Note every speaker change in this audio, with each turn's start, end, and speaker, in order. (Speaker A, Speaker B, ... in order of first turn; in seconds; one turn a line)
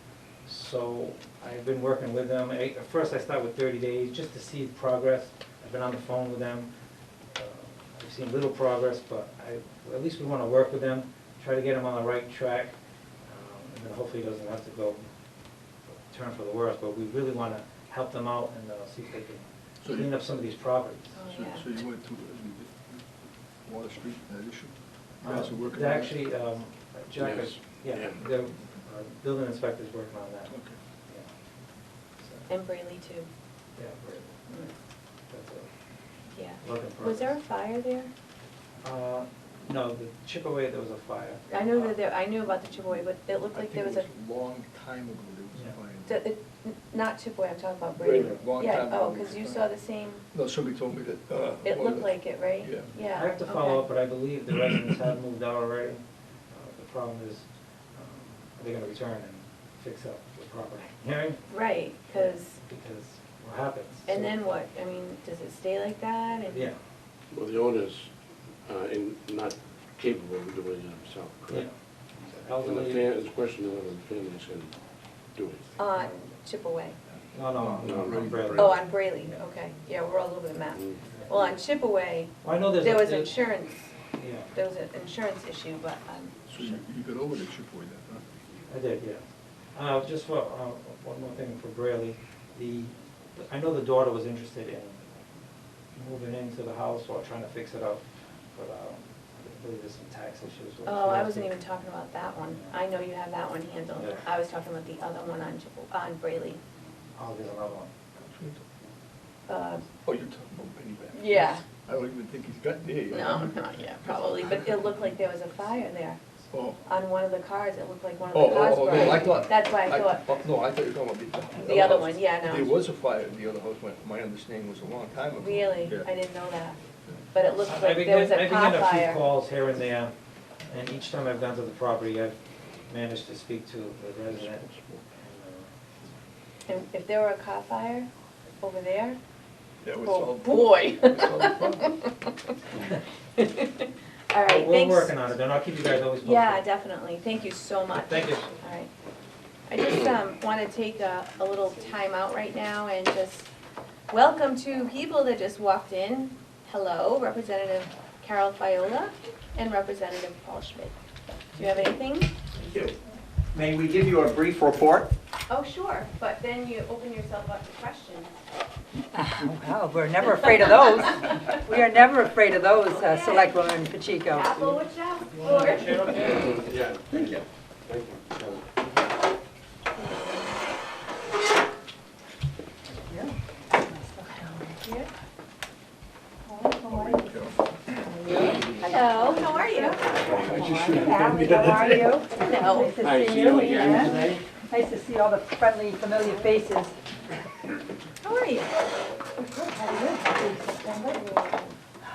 Speaker A: 0.5-6.7
Speaker A: 7.3-12.7
Speaker A: 13.2-15.1
Speaker A: 16.1-21.1
Speaker B: 19.8-20.2
Speaker C: 21.1-21.6
Speaker B: 21.3-23.0
Speaker B: 23.6-26.2
Speaker A: 25.2-30.5
Speaker D: 27.2-28.2
Speaker B: 30.5-30.8
Speaker A: 32.2-32.5
Speaker C: 32.5-33.3
Speaker A: 33.8-34.4
Speaker A: 35.3-35.7
Speaker C: 36.3-38.1
Speaker A: 36.6-37.4
Speaker A: 38.8-41.4
Speaker C: 41.5-44.1
Speaker B: 43.5-46.2
Speaker C: 46.1-50.2
Speaker B: 48.0-49.7
Speaker B: 50.3-52.9
Speaker C: 51.6-53.8
Speaker A: 53.0-61.4
Speaker C: 61.5-62.6
Speaker A: 62.1-64.3
Speaker C: 64.1-66.7
Speaker A: 66.5-66.8
Speaker D: 67.3-68.1
Speaker D: 68.7-71.7
Speaker A: 71.5-73.0
Speaker D: 72.6-74.8
Speaker D: 75.3-75.7
Speaker C: 75.8-77.0
Speaker A: 75.9-76.2
Speaker A: 77.3-78.8
Speaker B: 77.5-78.7
Speaker D: 77.8-78.8
Speaker C: 78.5-84.0
Speaker D: 80.7-81.0
Speaker A: 82.4-83.3
Speaker A: 84.1-84.5
Speaker C: 84.5-86.8
Speaker B: 86.5-88.2
Speaker A: 88.7-89.2
Speaker A: 89.7-95.1
Speaker A: 95.9-101.6
Speaker C: 100.8-106.6
Speaker A: 103.9-104.2
Speaker A: 107.2-107.9
Speaker B: 108.2-108.6
Speaker C: 109.5-109.9
Speaker B: 109.9-115.0
Speaker C: 111.1-111.6
Speaker C: 113.1-116.2
Speaker B: 116.5-116.8
Speaker C: 116.8-120.2
Speaker B: 118.3-126.1
Speaker C: 121.6-122.7
Speaker C: 125.4-126.8
Speaker C: 127.3-129.3
Speaker A: 127.7-130.1
Speaker A: 130.7-132.3
Speaker A: 132.9-135.7
Speaker D: 134.3-135.0
Speaker C: 136.7-138.1
Speaker C: 138.6-139.2
Speaker B: 139.8-142.0
Speaker C: 140.0-142.3
Speaker C: 143.3-145.2
Speaker A: 144.4-146.6
Speaker C: 146.2-148.9
Speaker A: 147.9-148.5
Speaker C: 149.7-153.5
Speaker C: 154.1-160.9
Speaker C: 161.6-162.3
Speaker E: 161.6-161.9
Speaker F: 162.6-162.9
Speaker F: 163.5-165.1
Speaker C: 165.5-168.4
Speaker E: 169.1-174.8
Speaker C: 172.9-173.6
Speaker C: 174.3-176.2
Speaker A: 175.3-176.8
Speaker D: 176.1-178.6
Speaker C: 179.9-180.6
Speaker E: 183.0-185.0
Speaker E: 186.4-196.9
Speaker B: 186.9-187.5
Speaker D: 188.5-188.8
Speaker C: 188.8-190.0
Speaker D: 190.1-192.1
Speaker C: 192.4-193.0
Speaker D: 193.0-194.3
Speaker A: 193.4-194.4
Speaker C: 198.2-198.7
Speaker E: 199.4-201.2
Speaker C: 200.8-201.8